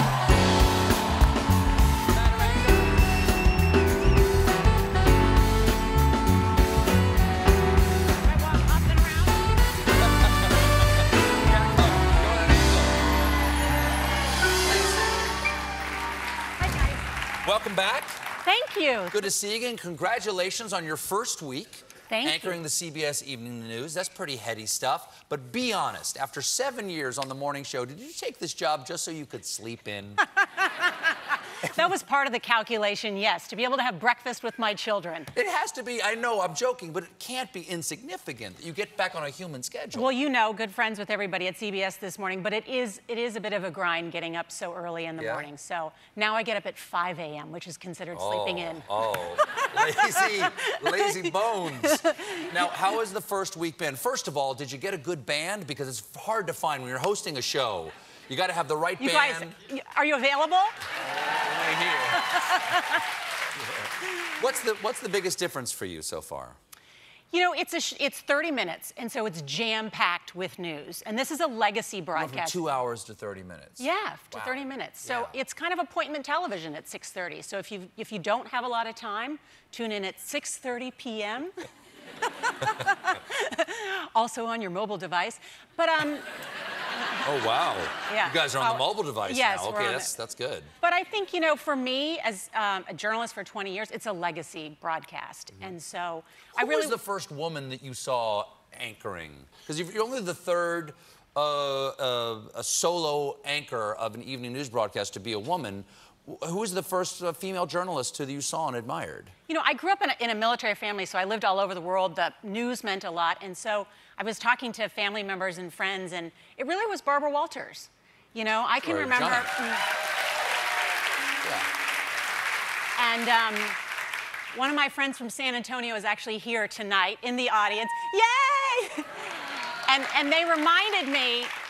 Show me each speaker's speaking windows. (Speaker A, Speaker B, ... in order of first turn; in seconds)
Speaker A: 2.1-2.9, 11.4-13.0, 14.7-15.0, 17.4-18.2, 19.1-30.3, 35.3-40.1, 45.2-45.5, 48.1-59.5, 61.3-62.4, 64.2-66.6, 72.2-75.4, 87.2-90.7, 96.6-109.3, 118.8-119.5, 121.4-121.7
Speaker B: 8.2-9.5, 16.6-17.0, 18.4-19.3, 22.1-22.6, 31.6-35.3, 39.9-52.7, 59.0-60.7, 62.1-63.0, 67.3-72.6, 73.8-81.5, 82.4-86.3, 88.1-90.1, 90.8-97.0, 109.5-119.9, 123.0-123.8, 124.5-129.3, 129.9-131.5